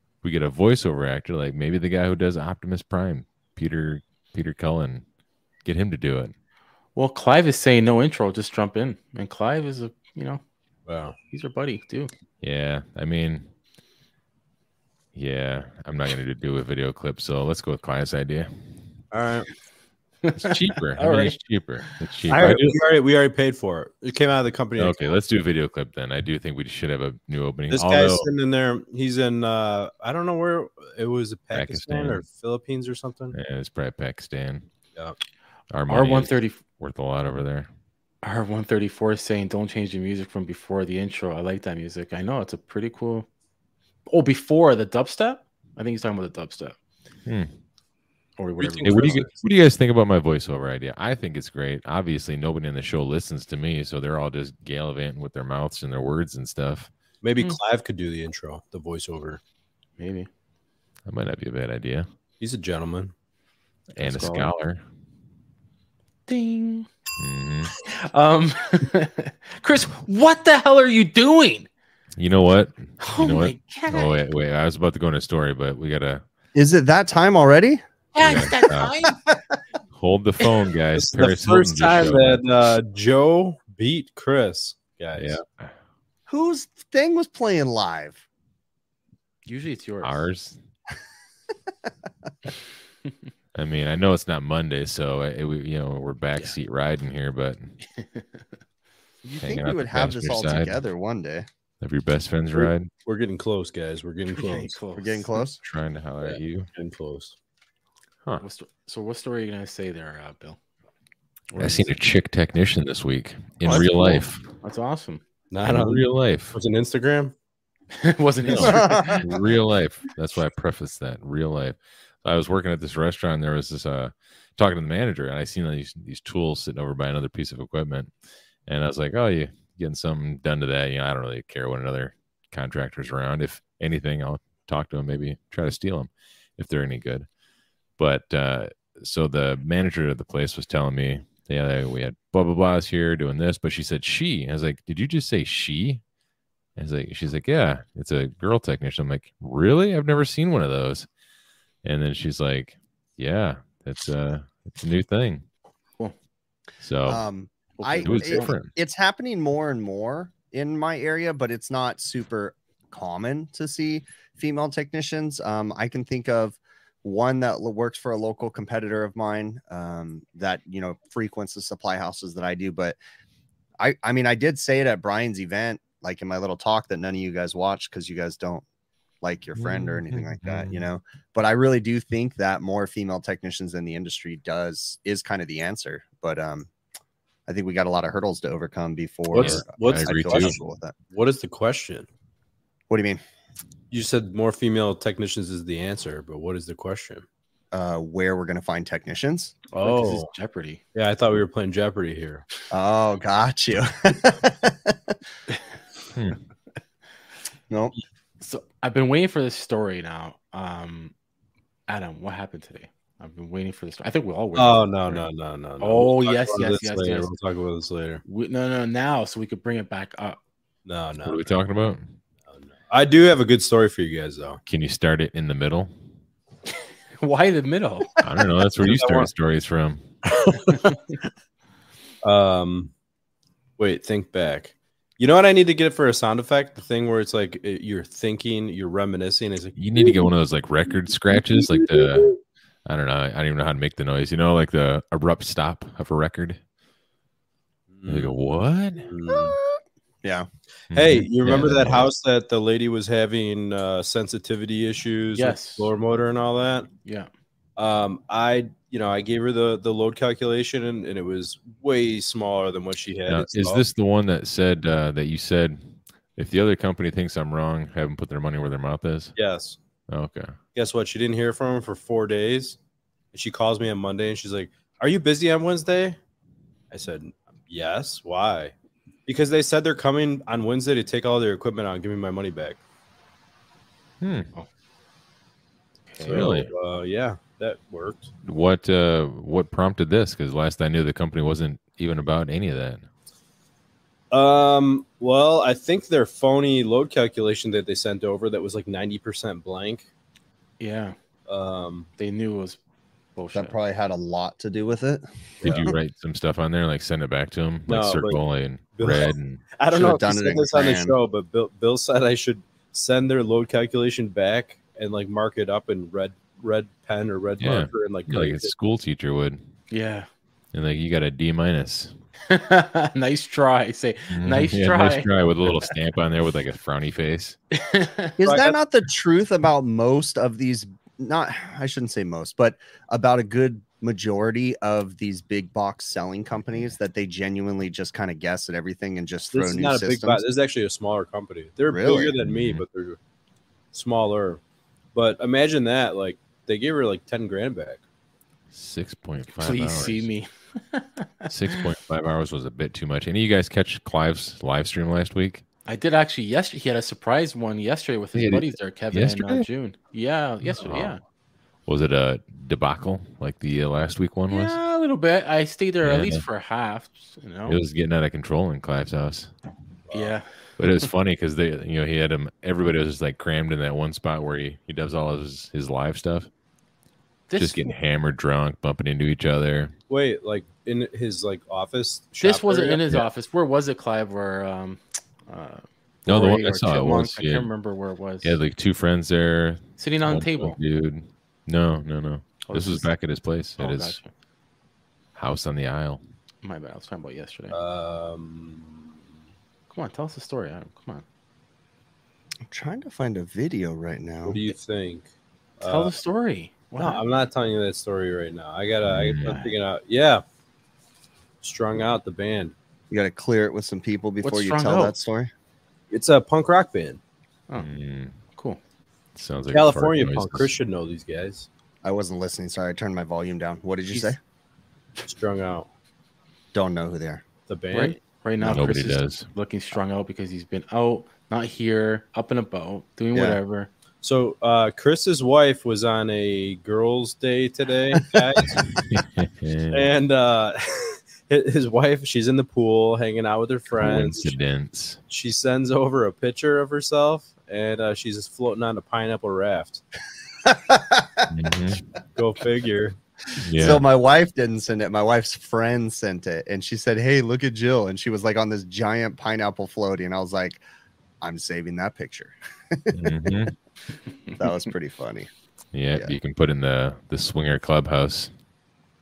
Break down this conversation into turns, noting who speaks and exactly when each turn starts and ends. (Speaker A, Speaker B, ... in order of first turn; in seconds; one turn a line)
Speaker A: 0.2-5.0
Speaker A: 5.6-6.3
Speaker B: 7.0-10.4
Speaker C: 10.9-11.2
Speaker B: 11.3-12.1
Speaker A: 12.4-13.5
Speaker A: 15.1-18.5
Speaker C: 19.1-19.5
Speaker B: 20.2-21.4
Speaker A: 20.4-22.7
Speaker C: 22.3-25.0
Speaker A: 24.8-28.3
Speaker C: 27.7-33.3
Speaker A: 31.5-32.2
Speaker A: 33.3-34.6
Speaker A: 35.7-37.7
Speaker B: 35.9-36.6
Speaker B: 38.2-43.3
Speaker B: 44.1-46.8
Speaker B: 48.4-49.2
Speaker C: 48.6-49.3
Speaker A: 48.8-56.9
Speaker C: 57.2-59.4
Speaker B: 60.0-60.3
Speaker A: 61.0-62.1
Speaker C: 62.4-63.1
Speaker A: 63.9-64.8
Speaker B: 64.0-64.5
Speaker B: 66.3-66.9
Speaker A: 67.2-67.7
Speaker B: 67.9-71.7
Speaker A: 72.2-76.2
Speaker B: 73.0-74.2
Speaker D: 76.5-77.8
Speaker B: 78.1-79.2
Speaker A: 78.2-78.9
Speaker A: 79.9-82.4
Speaker C: 81.0-85.4
Speaker A: 85.2-85.7
Speaker D: 86.3-88.2
Speaker B: 89.5-90.2
Speaker A: 90.0-90.6
Speaker A: 93.5-97.8
Speaker B: 97.9-98.4
Speaker D: 99.2-101.5
Speaker A: 99.4-100.8
Speaker A: 101.8-102.9
Speaker C: 102.5-104.8
Speaker B: 104.4-105.2
Speaker D: 105.0-105.6
Speaker A: 105.6-106.7
Speaker C: 106.2-107.3
Speaker B: 108.4-110.6
Speaker B: 111.5-111.9
Speaker A: 111.6-114.4
Speaker D: 113.6-113.9
Speaker B: 113.7-115.2
Speaker C: 115.5-117.3
Speaker A: 115.6-116.5
Speaker B: 117.9-119.4
Speaker A: 118.5-128.1
Speaker D: 118.6-119.2
Speaker A: 128.7-137.2
Speaker A: 138.0-146.0
Speaker A: 146.8-151.1
Speaker A: 151.8-155.4
Speaker A: 156.8-157.2
Speaker D: 157.1-173.0
Speaker B: 157.8-158.5
Speaker A: 158.0-158.7
Speaker D: 173.8-178.6
Speaker D: 179.2-186.7
Speaker A: 179.6-180.9
Speaker D: 187.4-190.9
Speaker C: 189.3-190.6
Speaker A: 189.3-190.5
Speaker C: 191.1-192.1
Speaker D: 192.9-193.2
Speaker C: 193.9-197.2
Speaker D: 197.7-199.5
Speaker C: 199.7-200.3
Speaker B: 199.7-200.8
Speaker C: 200.9-202.4
Speaker D: 202.7-205.1
Speaker B: 208.4-211.1
Speaker B: 211.9-214.9
Speaker C: 214.5-218.2
Speaker B: 215.8-217.3
Speaker B: 218.2-220.4
Speaker C: 220.8-221.6
Speaker A: 221.2-222.1
Speaker C: 222.5-224.6
Speaker A: 224.7-225.9
Speaker B: 227.2-228.2
Speaker A: 228.2-230.1
Speaker C: 228.8-229.3
Speaker C: 230.3-231.0
Speaker C: 232.2-232.9
Speaker C: 233.8-240.3
Speaker A: 239.8-242.3
Speaker C: 241.3-242.3
Speaker A: 242.8-246.6
Speaker C: 247.9-248.3
Speaker A: 248.1-249.1
Speaker C: 249.0-249.6
Speaker A: 250.9-252.1
Speaker C: 250.9-256.9
Speaker B: 255.4-255.9
Speaker B: 257.0-257.3
Speaker C: 257.8-263.8
Speaker A: 263.3-269.3
Speaker C: 269.4-269.8
Speaker A: 270.1-270.5
Speaker C: 270.7-272.8
Speaker C: 273.3-276.2
Speaker C: 276.9-278.7
Speaker C: 279.2-282.8
Speaker A: 284.2-284.5
Speaker B: 286.1-286.5
Speaker C: 286.2-288.3
Speaker A: 286.3-286.7
Speaker A: 288.4-293.0
Speaker C: 294.3-300.1
Speaker B: 300.8-301.1
Speaker C: 301.5-302.1
Speaker B: 302.2-302.8
Speaker B: 303.4-303.8
Speaker D: 303.5-305.9
Speaker C: 305.6-305.9
Speaker A: 305.6-309.6
Speaker C: 307.9-308.4
Speaker C: 309.0-318.7
Speaker D: 309.9-311.1
Speaker A: 317.6-319.6
Speaker B: 319.9-320.3
Speaker A: 320.7-322.1
Speaker B: 322.5-325.9
Speaker A: 324.3-327.6
Speaker B: 327.8-328.4
Speaker D: 328.4-340.4
Speaker C: 328.4-328.8
Speaker C: 339.5-343.2
Speaker D: 341.9-342.3
Speaker A: 342.4-342.8
Speaker C: 343.9-344.6
Speaker C: 345.1-348.0
Speaker A: 348.7-350.3
Speaker B: 349.6-351.8
Speaker A: 351.5-355.6
Speaker B: 355.9-361.2
Speaker A: 358.3-359.7
Speaker A: 360.6-361.1
Speaker A: 361.9-364.8
Speaker B: 364.5-367.8
Speaker A: 366.0-366.4
Speaker A: 367.6-369.5
Speaker C: 370.1-370.3
Speaker B: 370.1-371.1
Speaker A: 370.8-376.5
Speaker B: 377.5-377.9
Speaker A: 377.6-379.9
Speaker C: 380.1-383.0
Speaker B: 382.4-388.6
Speaker A: 386.2-387.7
Speaker A: 388.4-394.2
Speaker B: 390.0-390.8
Speaker B: 392.6-393.1
Speaker B: 393.8-394.3
Speaker A: 395.3-396.2
Speaker B: 396.6-397.8
Speaker C: 397.7-399.1
Speaker B: 399.9-401.2
Speaker D: 402.6-404.6
Speaker C: 404.4-405.3
Speaker C: 405.8-406.1
Speaker B: 405.8-407.2
Speaker C: 407.0-410.4
Speaker A: 409.0-409.6
Speaker C: 411.6-412.7
Speaker D: 413.1-415.5
Speaker B: 414.4-415.1
Speaker C: 416.1-417.2
Speaker A: 417.8-418.3
Speaker B: 418.5-418.8
Speaker A: 419.4-420.7
Speaker C: 419.7-421.7
Speaker D: 422.0-424.4
Speaker C: 425.2-425.9
Speaker D: 426.7-427.4
Speaker C: 427.7-428.2
Speaker B: 427.9-433.9
Speaker A: 428.6-429.5
Speaker D: 433.3-433.6
Speaker C: 434.2-438.8
Speaker A: 438.6-440.1
Speaker C: 439.9-444.5
Speaker A: 444.0-445.2
Speaker C: 445.3-450.0
Speaker D: 450.6-451.5
Speaker A: 451.5-452.0
Speaker C: 452.4-453.2
Speaker A: 453.6-454.0
Speaker D: 453.8-460.8
Speaker D: 461.4-463.5
Speaker A: 463.1-463.7
Speaker D: 464.6-465.5
Speaker A: 465.9-468.5